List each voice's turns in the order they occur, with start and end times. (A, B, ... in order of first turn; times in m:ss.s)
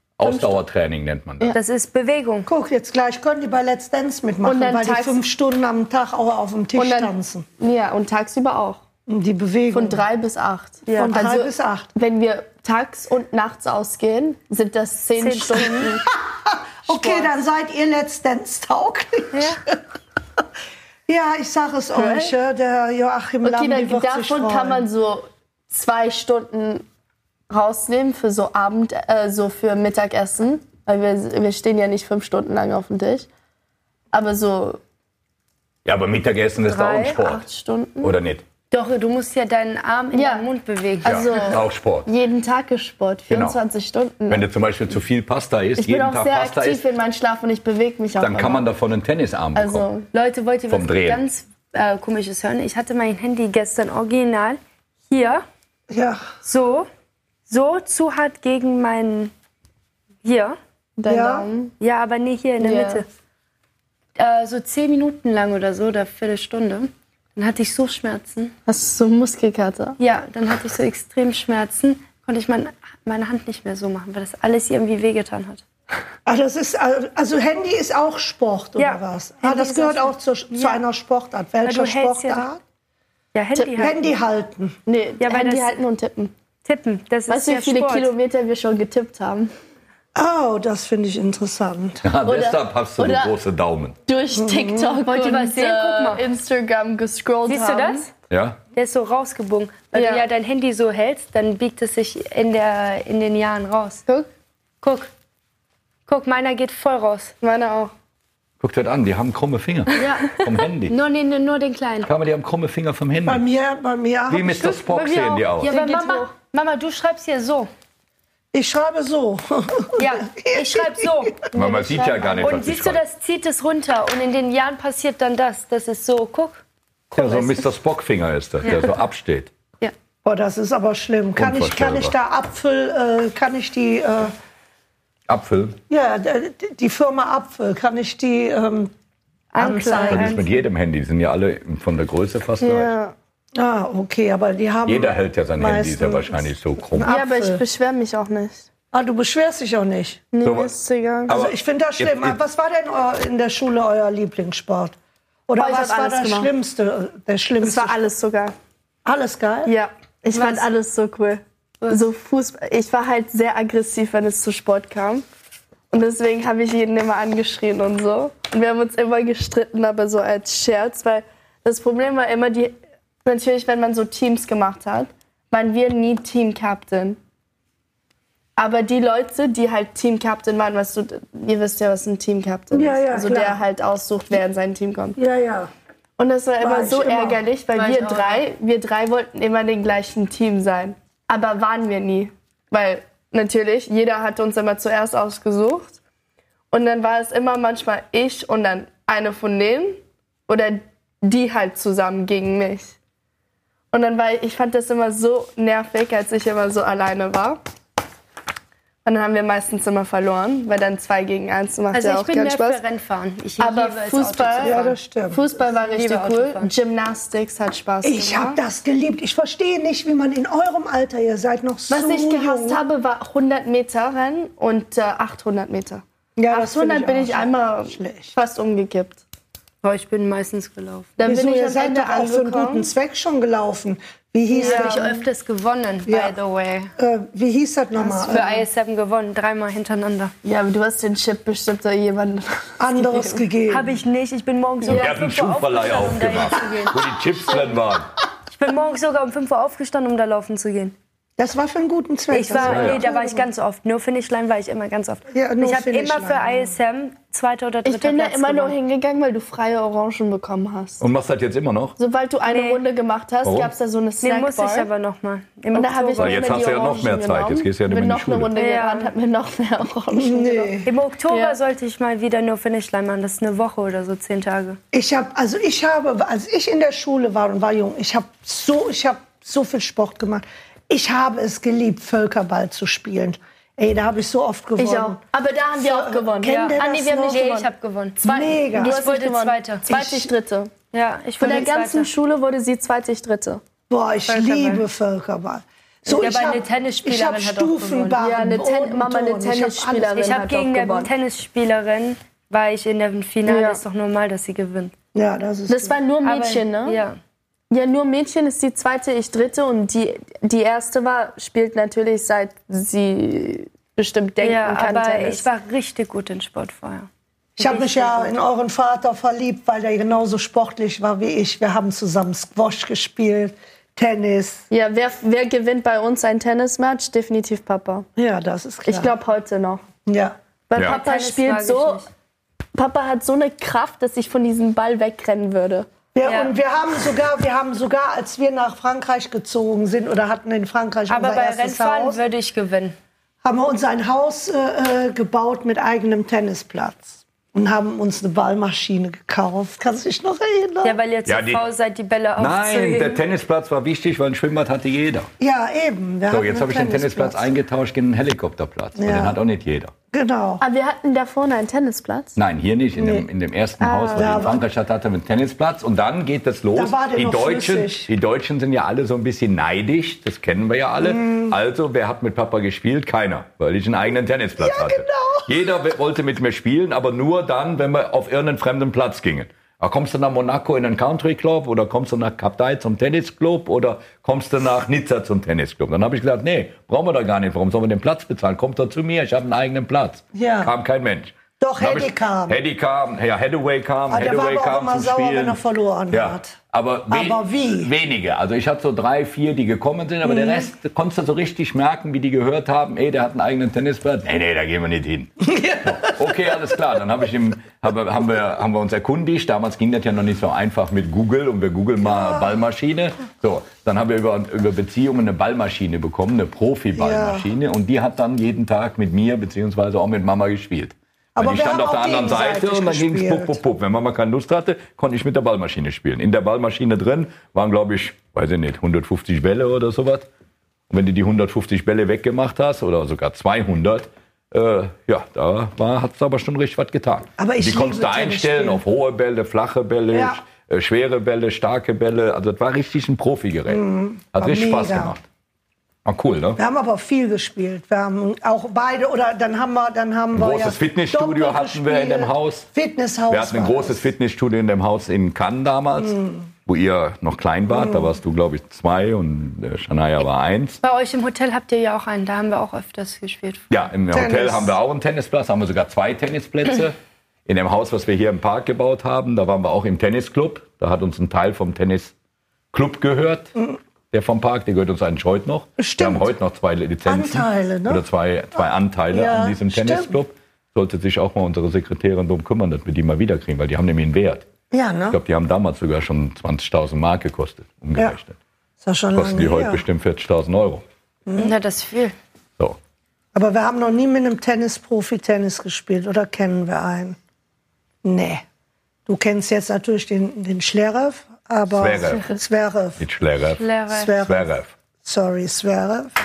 0:00.2-0:01.6 A
0:00.2-0:00.5 B
0:01.5-0:02.5 C
0:02.5-0:07.5 D
0:04.4-0:05.2 B
0:06.8-0:08.8 B
0:09.1-0:10.0 D
0:09.7-0:16.1 B
0:10.9-0:11.2 C
0:11.0-0:11.9 D
0:15.2-0:16.0 C
0:16.1-0:19.8 D
0:16.9-0:17.4 B
0:19.3-0:19.6 C
0:21.1-0:24.9 D
0:22.0-0:22.3 B
0:23.4-0:26.9 B
0:27.5-0:33.3 B
0:34.1-0:34.8 B
0:35.8-0:37.4 A
0:36.7-0:37.1 C
0:36.9-0:38.2 B
0:38.0-0:38.4 A
0:38.7-0:41.6 C
0:40.1-0:40.5 B
0:41.0-0:44.5 B
0:41.0-0:42.1 A
0:43.3-0:43.6 A
0:44.3-0:46.8 A
0:45.8-0:48.7 B
0:48.2-0:49.9 A
0:49.6-0:50.1 B
0:50.1-0:55.4 C
0:50.7-0:51.2 A
0:55.9-0:56.2 D
0:56.4-0:56.9 C
0:57.5-0:59.3 C
1:00.2-1:00.6 C
1:01.0-1:01.7 B
1:01.1-1:01.5 D
1:01.8-1:03.1 C
1:02.6-1:03.0 B
1:04.2-1:08.5 C
1:08.7-1:10.0 B
1:10.0-1:15.6 C
1:16.3-1:22.6 D
1:18.8-1:20.8 C
1:21.6-1:22.4 C
1:23.3-1:24.0 C
1:23.6-1:24.0 B
1:23.8-1:24.8 D
1:24.9-1:26.3 B
1:25.2-1:25.8 C
1:26.6-1:28.1 C
1:27.3-1:29.5 B
1:30.2-1:32.0 D
1:32.0-1:34.0 A
1:32.2-1:33.3 B
1:34.1-1:38.1 B
1:34.3-1:35.0 D
1:34.8-1:36.2 C
1:37.5-1:38.1 C
1:38.3-1:38.6 A
1:38.7-1:44.0 C
1:39.9-1:40.2 B
1:44.8-1:45.1 C
1:46.1-1:47.3 C
1:47.4-1:47.9 B
1:48.6-1:51.0 A
1:49.9-1:52.1 C
1:52.0-1:53.4 A
1:53.3-1:54.8 D
1:54.3-1:55.7 A
1:54.8-1:56.3 B
1:55.6-1:57.7 C
1:58.5-2:01.3 D
2:00.0-2:01.4 C
2:01.5-2:02.7 B
2:01.5-2:03.0 A
2:02.4-2:06.6 C
2:07.1-2:07.6 C
2:07.1-2:09.5 A
2:08.6-2:08.9 C
2:10.2-2:14.3 D
2:11.4-2:12.1 A
2:15.3-2:15.8 A
2:15.9-2:18.9 D
2:19.5-2:20.5 C
2:19.6-2:20.4 D
2:20.0-2:22.9 A
2:22.6-2:23.2 B
2:23.6-2:27.6 D
2:24.9-2:27.1 A
2:27.1-2:28.7 B
2:28.9-2:30.2 D
2:30.3-2:31.4 B
2:30.4-2:30.7 A
2:31.3-2:32.4 A
2:31.3-2:35.0 D
2:35.5-2:38.0 D
2:35.6-2:36.5 B
2:37.6-2:38.5 B
2:39.0-2:39.7 D
2:39.7-2:45.2 B
2:40.3-2:40.7 C
2:45.9-2:57.2 B
2:58.6-3:05.2 B
3:02.7-3:03.6 D
3:05.2-3:05.7 D
3:06.2-3:16.0 B
3:06.6-3:07.4 D
3:07.8-3:08.4 C
3:16.7-3:23.0 B
3:23.9-3:27.6 B
3:29.0-3:32.8 B
3:31.9-3:35.0 C
3:33.6-3:38.6 B
3:34.6-3:35.4 D
3:35.7-3:36.7 C
3:38.0-3:42.8 D
3:41.9-3:49.2 B
3:46.4-3:48.3 D
3:49.8-3:51.2 C
3:51.2-3:52.9 B
3:51.2-3:55.0 D
3:54.5-3:55.2 B
3:54.6-3:56.9 C
3:56.1-3:56.3 D
3:57.0-3:58.6 D
3:58.0-3:58.6 B
3:58.2-4:00.3 C
4:00.4-4:03.4 B
4:02.8-4:04.0 D
4:03.7-4:07.0 C
4:04.8-4:05.2 B
4:04.9-4:08.1 A
4:07.5-4:07.8 B
4:08.5-4:11.0 C
4:11.4-4:13.5 D
4:12.3-4:18.8 C
4:12.6-4:13.0 A
4:15.3-4:16.7 D
4:17.8-4:21.0 B
4:21.0-4:22.0 A
4:22.0-4:24.9 B
4:22.5-4:22.8 C
4:23.4-4:23.7 A
4:24.2-4:26.6 C
4:25.7-4:31.6 B
4:26.2-4:28.5 A
4:28.6-4:29.1 C
4:30.1-4:30.9 D
4:30.8-4:34.8 C
4:34.9-4:45.2 D
4:44.8-4:47.7 B
4:45.8-4:47.6 D
4:46.4-4:48.2 C
4:48.2-4:50.7 B
4:48.2-4:49.0 D
4:48.7-4:49.8 C
4:49.9-4:50.3 D
4:50.9-4:52.1 C
4:51.4-4:53.6 B
4:53.9-5:00.3 D
4:54.3-4:54.8 C
4:56.1-4:58.2 C
4:58.2-5:01.1 B
5:00.2-5:04.9 C
5:03.5-5:03.8 B
5:05.2-5:06.0 D
5:05.7-5:07.0 B
5:06.2-5:07.2 C
5:07.7-5:15.5 B
5:14.4-5:18.3 C
5:17.6-5:24.6 D
5:24.7-5:28.1 B
5:28.2-5:29.1 D
5:28.9-5:29.8 B
5:30.1-5:30.4 D
5:30.7-5:32.1 B
5:30.8-5:32.1 C
5:32.8-5:35.9 B
5:36.1-5:42.2 D
5:36.2-5:36.5 C
5:41.1-5:43.0 C
5:43.4-5:51.0 D
5:50.8-5:53.2 C
5:51.3-5:51.6 A
5:52.4-5:55.3 A
5:55.4-5:57.5 D
5:56.3-5:59.9 A
5:59.0-5:59.4 D
6:00.1-6:00.6 D
6:00.6-6:02.4 B
6:02.4-6:35.6 A
6:03.0-6:03.3 D
6:03.8-6:04.6 B
6:04.1-6:04.6 D
6:06.7-6:08.1 D
6:11.0-6:11.5 D
6:14.6-6:15.5 D
6:30.3-6:30.7 D
6:31.6-6:32.6 D
6:34.1-6:36.6 D
6:36.1-7:10.3 A
6:37.1-6:37.9 D
6:40.2-6:40.7 D
6:45.5-6:46.1 D
6:52.1-6:52.5 D
6:57.0-6:57.5 D
7:01.4-7:03.6 D
7:10.9-7:25.2 A
7:17.4-7:18.8 D
7:20.1-7:20.4 D
7:23.7-7:25.2 D
7:26.0-7:26.6 A
7:26.6-7:34.1 D
7:30.3-7:32.7 A
7:33.3-7:40.8 A
7:36.1-7:36.4 D
7:37.7-7:38.1 D
7:40.8-7:43.7 C
7:43.7-7:52.1 A
7:44.1-7:44.8 D
7:52.7-7:53.5 A
7:54.1-8:04.5 A
7:55.8-7:56.3 D
7:57.1-7:58.0 D
7:58.6-8:00.2 D
8:04.7-8:05.2 D
8:05.1-8:08.4 A
8:08.8-8:09.8 D
8:09.1-8:10.8 A
8:11.3-8:11.5 D
8:11.4-8:12.2 C
8:13.3-8:17.2 D
8:18.0-8:18.4 D
8:19.1-8:23.0 D
8:21.7-8:22.3 A
8:23.0-8:24.7 A
8:23.6-8:24.1 C
8:23.9-8:24.5 D
8:25.0-8:26.1 D